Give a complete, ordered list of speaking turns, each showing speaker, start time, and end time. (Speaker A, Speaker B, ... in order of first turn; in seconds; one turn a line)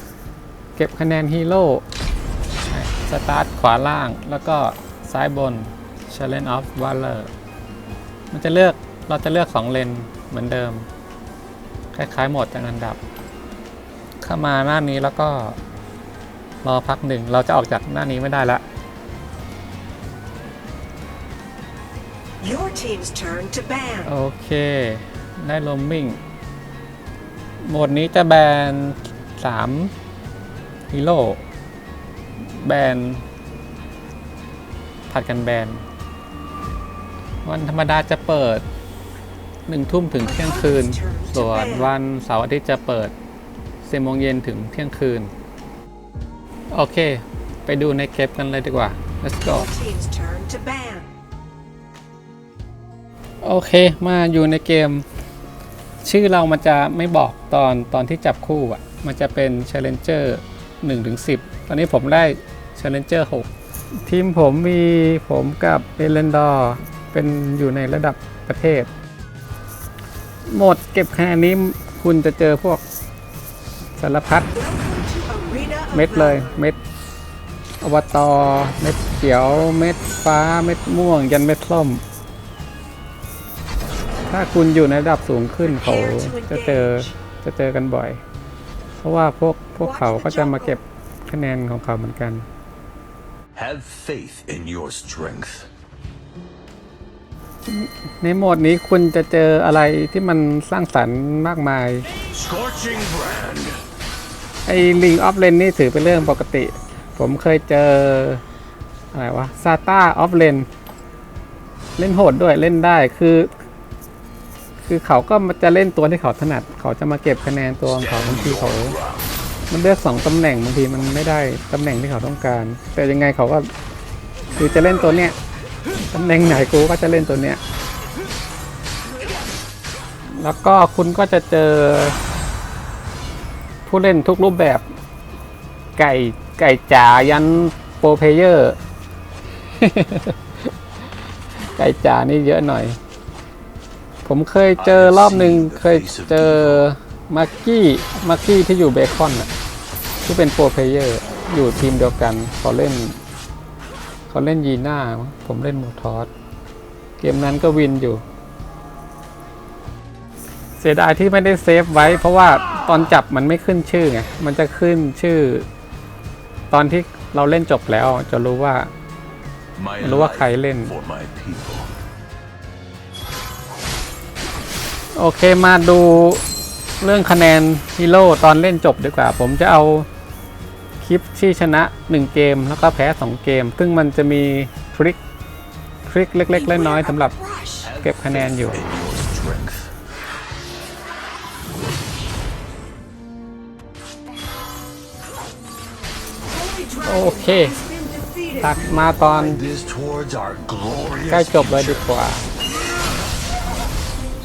Speaker A: 0.8-1.8
Speaker A: 2.7-7.3
Speaker A: 8.3-10.9
Speaker A: 11.9-13.0
Speaker A: 14.2-15.6
Speaker A: 16.6-18.6
Speaker B: 22.4-24.0
Speaker A: 24.0-26.2
Speaker A: 27.6-29.9
Speaker A: 30.9-31.4
Speaker A: 32.4-33.2
Speaker A: 35.1-35.8
Speaker A: 37.4-38.6
Speaker A: 39.7-43.1
Speaker B: 40.4-41.9
Speaker A: 43.8-45.3
Speaker A: 46.7-49.7
Speaker B: 49.5-51.1
Speaker A: 53.4-55.0
Speaker A: 56.0-63.5
Speaker A: 64.0-68.9
Speaker A: 70.5-72.8
Speaker A: 74.0-74.5
Speaker B: 74.6-76.4
Speaker A: 75.9-76.8
Speaker A: 77.8-82.0
Speaker A: 84.3-88.2
Speaker B: 85.7-87.1
Speaker A: 89.0-92.5
Speaker B: 89.8-90.8
Speaker C: 93.5-95.7
Speaker A: 97.7-102.1
Speaker C: 102.3-103.8
Speaker A: 104.7-108.4
Speaker A: 109.1-110.7
Speaker A: 112.0-113.5
Speaker A: 114.8-119.0
Speaker C: 117.8-119.3
Speaker A: 119.7-123.7
Speaker A: 124.5-125.4
Speaker A: 126.1-127.6
Speaker A: 130.3-132.2
Speaker A: 133.8-134.8
Speaker A: 136.0-138.8
Speaker A: 139.7-140.4
Speaker A: 141.7-143.0
Speaker A: 144.2-149.5
Speaker C: 144.8-146.9
Speaker A: 150.2-153.2
Speaker A: 154.3-156.3
Speaker A: 157.2-158.2
Speaker A: 160.8-165.7
Speaker A: 166.7-168.9
Speaker C: 169.8-171.9
Speaker A: 170.0-170.9
Speaker A: 175.1-176.4
Speaker A: 177.0-180.1
Speaker A: 181.0-185.2
Speaker A: 186.1-187.3
Speaker B: 186.5-187.8
Speaker C: 187.8-189.9
Speaker A: 188.0-188.8
Speaker B: 196.6-197.1
Speaker A: 197.0-197.8
Speaker B: 197.8-198.6
Speaker A: 198.5-199.6
Speaker C: 199.2-202.1
Speaker A: 201.3-202.4